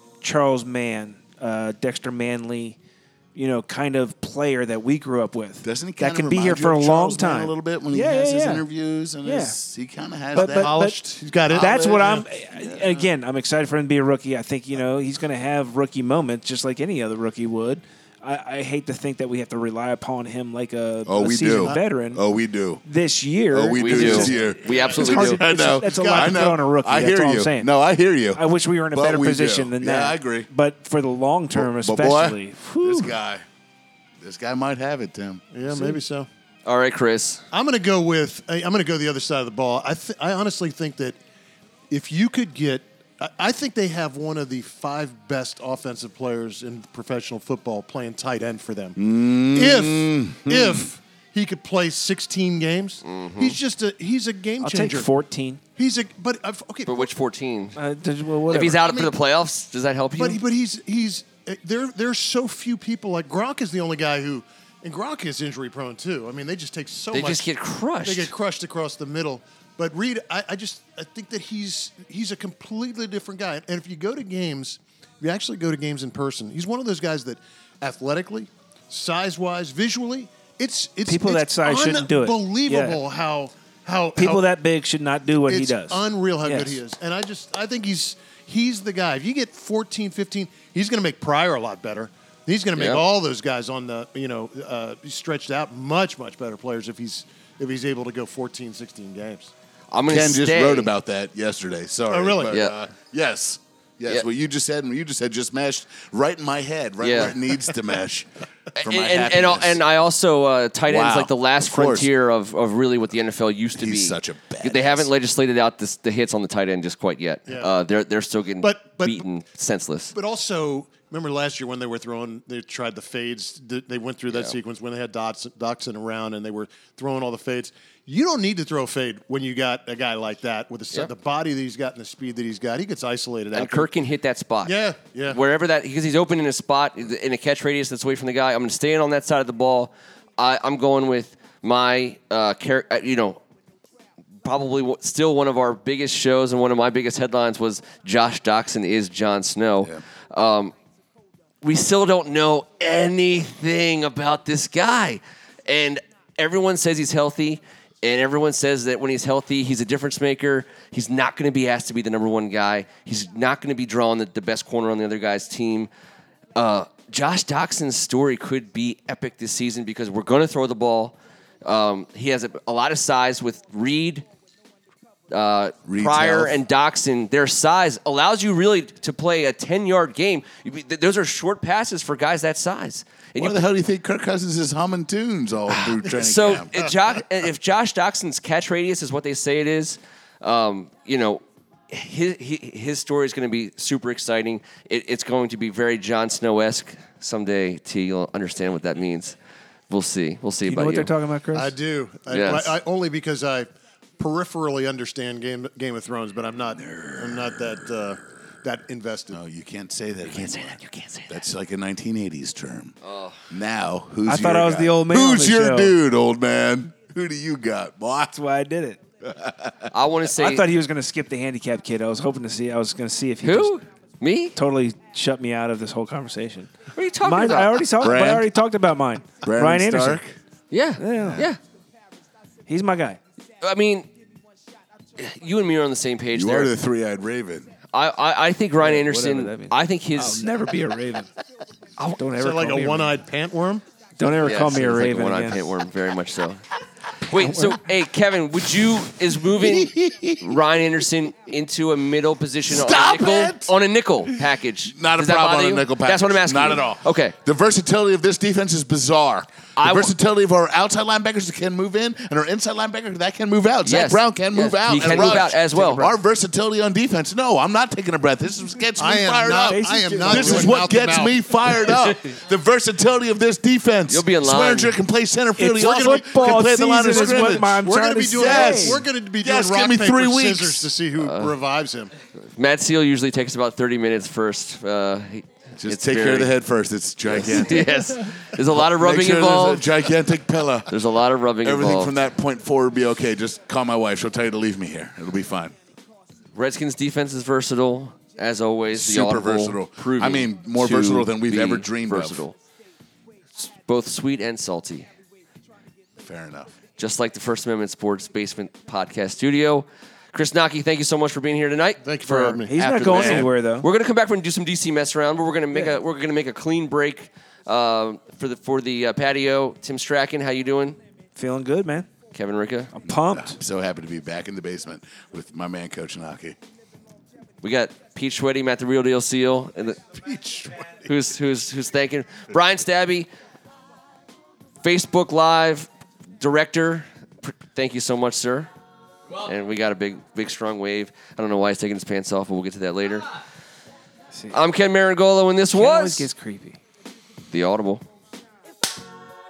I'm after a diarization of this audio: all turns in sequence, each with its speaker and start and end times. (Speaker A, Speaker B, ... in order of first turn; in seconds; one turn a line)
Speaker A: 0.2-2.8
Speaker A: 3.3-8.6
Speaker B: 5.6-10.7
Speaker A: 9.2-9.5
Speaker C: 10.3-12.2
Speaker A: 10.3-11.0
Speaker A: 11.5-22.2
Speaker B: 12.5-13.1
Speaker B: 21.1-22.8
Speaker A: 22.8-27.7
Speaker B: 23.5-30.5
Speaker D: 23.7-25.4
Speaker C: 24.8-26.5
Speaker A: 28.3-33.1
Speaker B: 31.5-33.4
Speaker B: 34.2-35.4
Speaker C: 35.5-36.3
Speaker A: 35.7-36.0
Speaker D: 36.6-37.4
Speaker C: 37.5-41.2
Speaker C: 41.9-49.0
Speaker B: 49.0-50.9
Speaker C: 49.5-55.1
Speaker D: 53.0-53.6
Speaker A: 54.6-55.6
Speaker C: 55.8-57.1
Speaker D: 56.9-57.8
Speaker A: 57.8-58.8
Speaker D: 58.5-60.4
Speaker C: 58.5-59.1
Speaker C: 60.1-67.5
Speaker D: 67.1-68.3
Speaker C: 68.0-84.5
Speaker A: 81.0-83.0
Speaker A: 84.2-86.8
Speaker C: 85.4-99.5
Speaker D: 92.7-93.0
Speaker D: 99.9-100.9
Speaker B: 100.1-108.3
Speaker C: 102.1-102.5
Speaker D: 102.5-102.8
Speaker D: 107.0-107.4
Speaker D: 108.8-120.1
Speaker B: 108.8-109.8
Speaker B: 110.9-112.1
Speaker B: 113.8-115.1
Speaker C: 118.6-119.2
Speaker C: 120.1-133.9
Speaker D: 124.3-124.5
Speaker D: 133.5-143.4
Speaker C: 134.6-135.4
Speaker D: 144.4-150.7
Speaker D: 151.6-165.9
Speaker D: 166.6-174.2
Speaker D: 175.3-183.6
Speaker B: 175.8-176.6
Speaker B: 183.4-186.7
Speaker D: 185.7-199.3
Speaker D: 199.9-201.1
Speaker A: 200.6-201.7
Speaker C: 201.5-209.4
Speaker D: 202.3-202.8
Speaker B: 209.3-212.9
Speaker D: 210.3-211.3
Speaker D: 213.0-213.4
Speaker B: 213.5-218.4
Speaker A: 214.2-215.9
Speaker A: 218.3-219.0
Speaker B: 219.2-219.9
Speaker D: 219.9-220.7
Speaker A: 220.3-223.8
Speaker D: 223.4-224.6
Speaker A: 224.5-230.2
Speaker D: 226.9-227.9
Speaker B: 228.0-228.5
Speaker B: 229.4-230.4
Speaker D: 230.7-231.6
Speaker A: 231.0-231.4
Speaker B: 231.1-231.5
Speaker A: 232.7-233.2
Speaker D: 233.6-234.1
Speaker D: 235.2-236.7
Speaker B: 236.3-237.7
Speaker D: 237.9-240.5
Speaker A: 238.8-241.3
Speaker A: 242.2-243.1
Speaker C: 242.3-243.8
Speaker A: 244.2-245.6
Speaker D: 244.4-246.6
Speaker D: 247.2-257.4
Speaker A: 247.4-247.8
Speaker B: 249.6-250.6
Speaker B: 252.7-253.7
Speaker B: 254.9-280.9
Speaker D: 259.8-260.1
Speaker D: 263.8-266.1
Speaker C: 269.0-271.4
Speaker A: 269.5-270.8
Speaker D: 271.9-272.2
Speaker D: 274.1-275.0
Speaker A: 275.6-279.0
Speaker C: 275.7-282.1
Speaker D: 281.2-281.5
Speaker D: 282.5-286.5
Speaker B: 285.8-290.9
Speaker D: 287.3-289.9
Speaker D: 290.9-292.2
Speaker B: 291.6-295.7
Speaker D: 296.5-302.5
Speaker B: 298.9-302.4
Speaker D: 303.6-305.1
Speaker B: 306.2-306.7
Speaker D: 307.0-321.0
Speaker C: 312.0-312.7
Speaker A: 312.6-313.9
Speaker B: 312.7-313.5
Speaker A: 321.4-322.1
Speaker D: 322.3-322.9
Speaker A: 322.9-323.6
Speaker B: 323.1-326.6
Speaker D: 327.6-330.2
Speaker D: 331.0-333.3
Speaker D: 334.8-338.7
Speaker D: 339.4-343.4
Speaker D: 344.5-346.2
Speaker A: 345.7-346.8
Speaker D: 347.5-348.0